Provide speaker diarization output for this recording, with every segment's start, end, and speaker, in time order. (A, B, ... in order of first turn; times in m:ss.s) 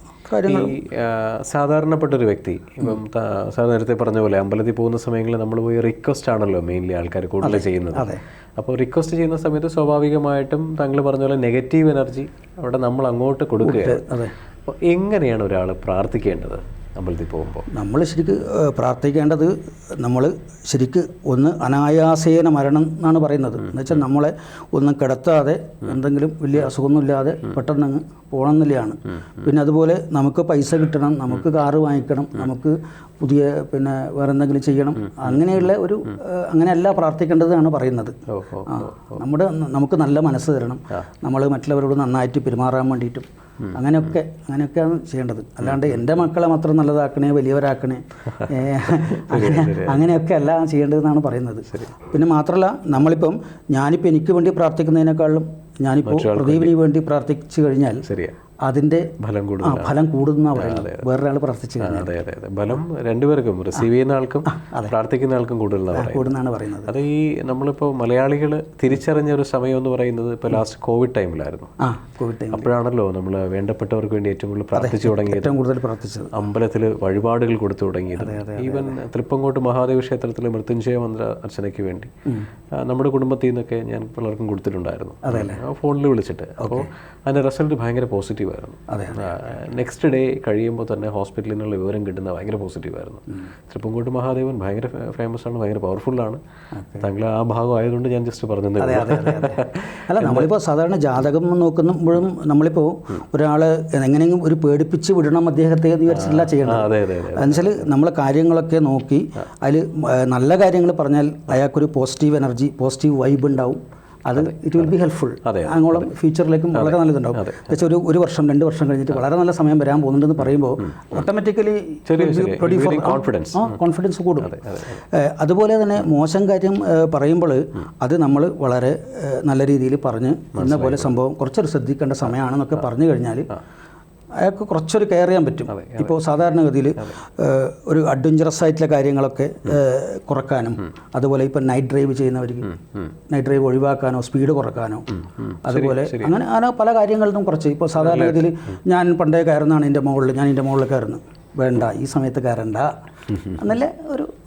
0:00.3-0:00.8 A
0:00.4-0:14.1 B
0:07.4-0:08.2 A
0:13.6-0:14.3 A
0:14.7-0:17.7 B
0:17.7-0:58.0 A
0:38.3-0:39.2 B
0:48.7-0:50.1 B
0:56.0-0:56.7 B
0:58.0-0:58.4 B
0:58.6-0:59.1 A
0:59.2-1:00.0 B
0:59.6-1:02.1 A
1:00.5-1:01.0 B
1:01.8-1:11.7 B
1:04.5-1:04.9 A
1:05.9-1:06.9 A
1:11.8-1:12.7 A
1:12.5-1:15.6 B
1:14.8-1:16.3 A
1:16.3-1:22.1 B
1:18.2-1:19.0 A
1:22.8-1:36.4 B
1:25.2-1:25.6 A
1:26.6-1:26.9 A
1:28.9-1:29.4 A
1:36.7-1:37.1 A
1:37.0-1:40.5 B
1:38.8-2:13.6 A
1:46.1-1:47.9 B
1:55.4-1:56.1 B
1:56.7-1:57.7 B
2:02.1-2:03.8 B
2:04.5-2:05.0 B
2:10.6-2:11.1 B
2:14.4-2:34.3 A
2:15.7-2:16.2 B
2:25.4-2:26.4 B
2:28.0-2:28.5 B